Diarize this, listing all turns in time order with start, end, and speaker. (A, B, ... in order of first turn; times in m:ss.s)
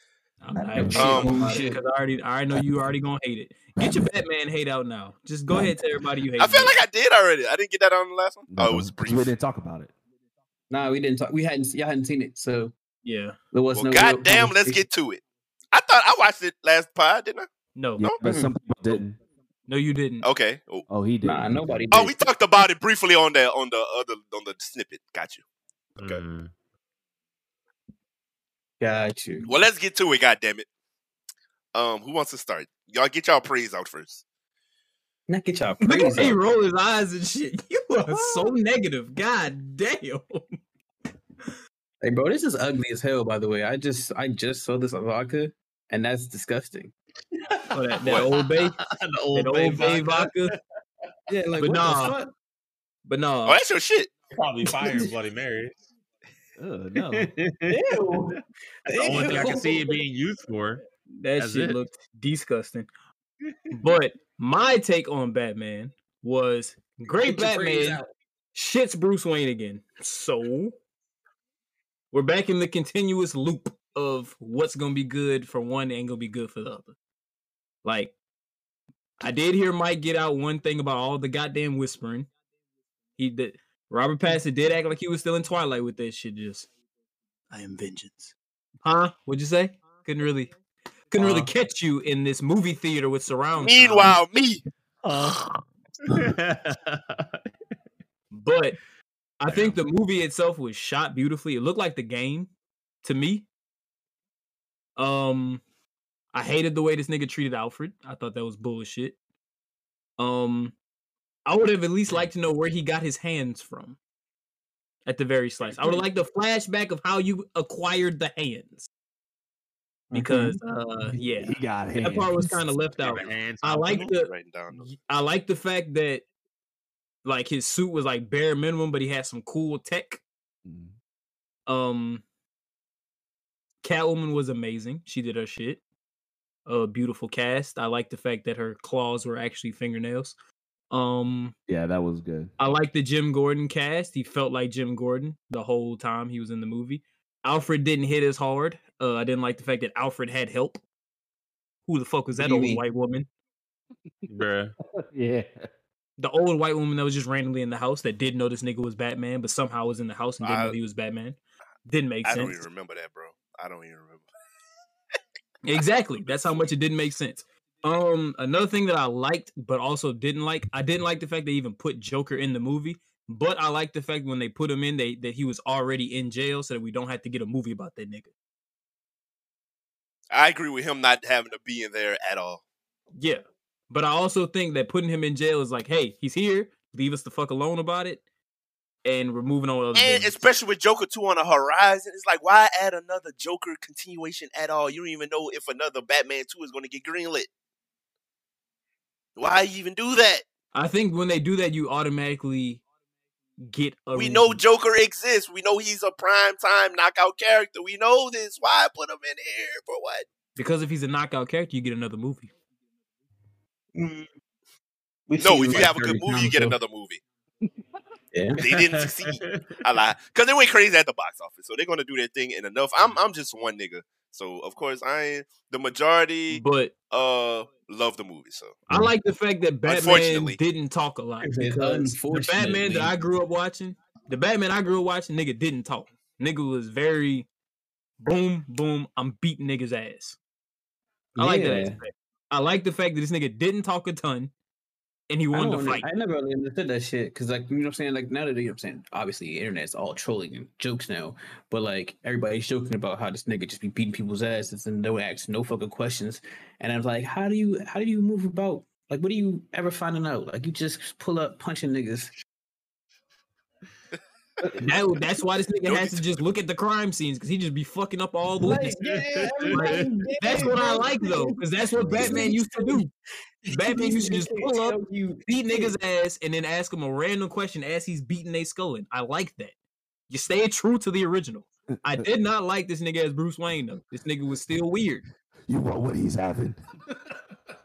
0:00.4-0:06.8 A
0:00.5-0:01.7 B
0:00.8-0:01.8 C
0:01.0-0:01.4 D
0:02.5-0:02.9 B
0:03.8-0:04.0 B
0:05.5-0:05.8 B
0:06.4-0:09.3 D
0:08.5-0:09.9 B
0:10.7-0:12.7 C
0:13.0-0:13.4 A
0:13.5-0:14.8 C
0:13.7-0:17.5 D
0:17.8-0:18.1 A
0:18.0-0:19.2 B
0:18.2-0:18.5 C
0:19.7-0:20.3 A
0:20.2-0:20.8 D
0:20.9-0:21.9 B
0:21.2-0:22.2 C
0:21.9-0:25.4 D
0:26.0-0:26.2 D
0:26.0-0:26.5 E
0:28.8-0:29.5 C
0:29.4-0:30.7 D
0:31.7-0:34.2 D
0:35.3-0:36.4 C
0:35.8-0:40.6 A
0:37.9-0:38.5 C
0:42.0-0:46.9 C
0:47.7-0:48.8 A
0:48.3-0:50.6 E
0:49.3-0:50.6 A
0:51.3-0:52.3 C
0:51.6-0:52.2 A
0:53.0-0:53.6 A
0:53.4-0:54.1 D
0:54.3-0:55.8 E
0:54.7-0:55.1 C
0:56.6-0:57.3 B
0:57.1-0:58.4 E
0:57.7-0:59.9 C
0:59.0-1:00.8 E
0:59.0-0:59.5 D
1:01.1-1:02.9 A
1:01.4-1:01.8 E
1:03.4-1:03.7 E
1:03.7-1:08.0 A
1:07.1-1:08.1 C
1:08.5-1:10.7 A
1:12.1-1:16.9 A
1:17.8-1:18.1 A
1:19.2-1:22.3 A
1:23.2-1:26.7 A
1:27.6-1:28.0 A
1:28.8-1:30.5 A
1:31.1-1:34.2 A
1:31.2-1:31.5 E
1:33.6-1:34.6 D
1:35.0-1:37.4 E
1:38.3-1:38.8 A
1:39.4-1:42.5 A
1:43.0-1:43.5 A
1:45.0-1:45.6 A
1:46.3-1:49.2 A
1:50.2-1:50.7 A
1:51.4-1:54.0 A
1:55.0-1:58.9 A
2:00.1-2:06.2 A
2:00.1-2:00.6 B
2:01.1-2:02.7 B
2:03.0-2:03.4 D
2:03.1-2:04.1 E
2:04.0-2:04.9 D
2:07.2-2:10.2 A
2:10.6-2:10.9 B
2:11.6-2:12.2 A
2:13.8-2:15.8 A
2:16.6-2:20.3 A
2:20.9-2:21.5 A
2:21.7-2:22.5 B
2:22.6-2:30.8 A
2:31.9-2:33.3 A
2:32.4-2:32.8 C
2:34.3-2:34.7 E
2:34.9-2:35.7 B
2:36.2-2:42.6 A
2:40.4-2:40.8 D
2:42.2-2:44.3 D
2:45.6-2:58.3 A
2:46.1-2:46.7 D
3:00.3-3:02.6 D
3:03.2-3:08.2 A
3:09.0-3:10.4 A
3:09.9-3:17.5 D
3:19.4-3:20.4 D
3:20.7-3:22.8 A
3:23.6-3:24.6 A
3:24.1-3:30.3 D
3:30.6-3:32.5 A
3:33.9-3:34.3 C
3:35.3-3:36.8 C
3:35.4-3:37.2 D
3:38.3-3:38.6 C
3:38.6-3:48.8 D
3:38.6-3:39.8 E
3:46.5-3:46.9 A
3:48.9-3:57.5 A
3:49.8-3:50.6 D
3:51.4-3:53.1 C
3:58.2-4:00.4 A
4:01.4-4:02.0 C
4:01.4-4:04.5 A
4:05.3-4:06.1 A
4:05.5-4:22.3 C
4:24.8-4:29.0 A
4:25.9-4:26.2 D
4:28.6-4:33.1 C
4:29.0-4:30.0 E
4:29.7-4:33.1 A
4:31.9-4:32.4 B
4:33.6-4:35.9 C
4:33.7-4:39.7 A
4:40.3-4:45.2 A
4:45.7-4:47.3 B